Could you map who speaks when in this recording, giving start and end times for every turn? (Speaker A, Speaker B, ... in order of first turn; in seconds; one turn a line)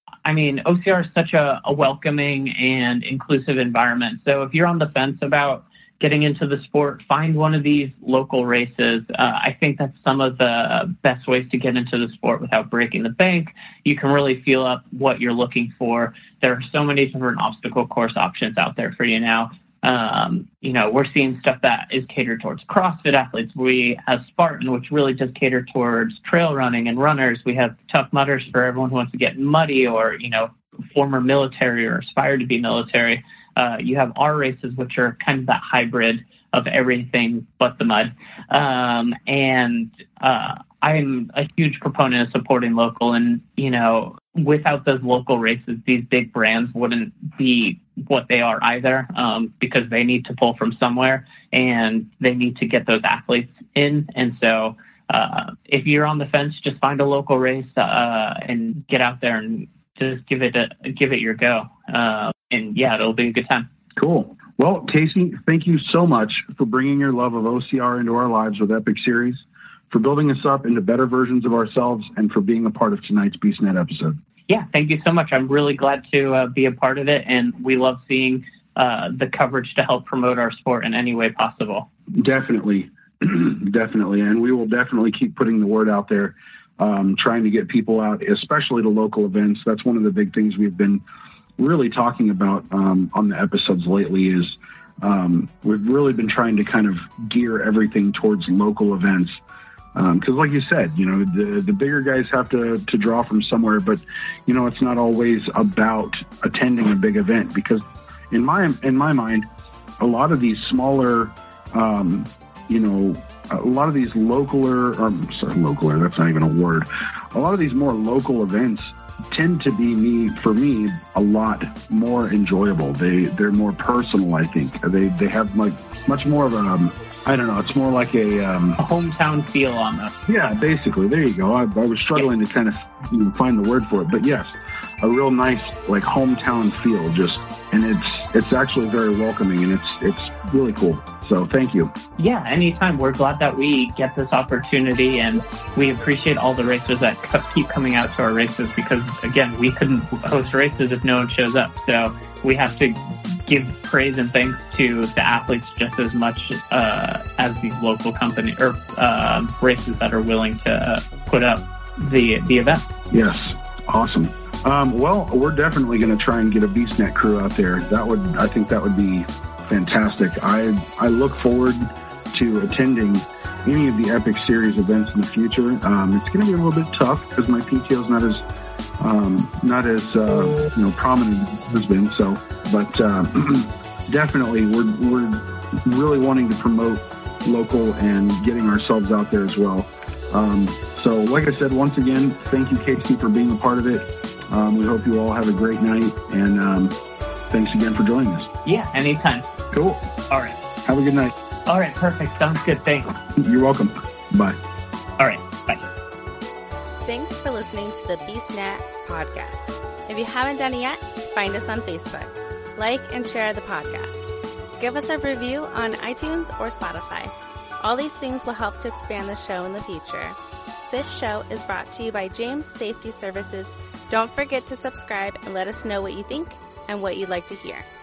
Speaker A: 0.2-63.7
Speaker B: 64.0-74.2
Speaker A: 74.5-81.9
Speaker B: 82.2-91.0
Speaker B: 91.6-99.4
Speaker B: 100.0-109.5
Speaker B: 110.0-128.8
Speaker A: 128.8-130.1
Speaker B: 130.3-141.9
Speaker A: 142.2-163.0
Speaker B: 163.1-178.4
Speaker B: 179.0-197.0
Speaker B: 197.5-198.5
Speaker A: 198.7-199.5
Speaker B: 199.7-200.1
Speaker A: 200.3-200.6
Speaker B: 200.8-201.3
Speaker A: 201.7-203.2
Speaker B: 203.4-204.6
Speaker A: 205.2-205.9
Speaker C: 207.1-220.4
Speaker C: 220.9-227.8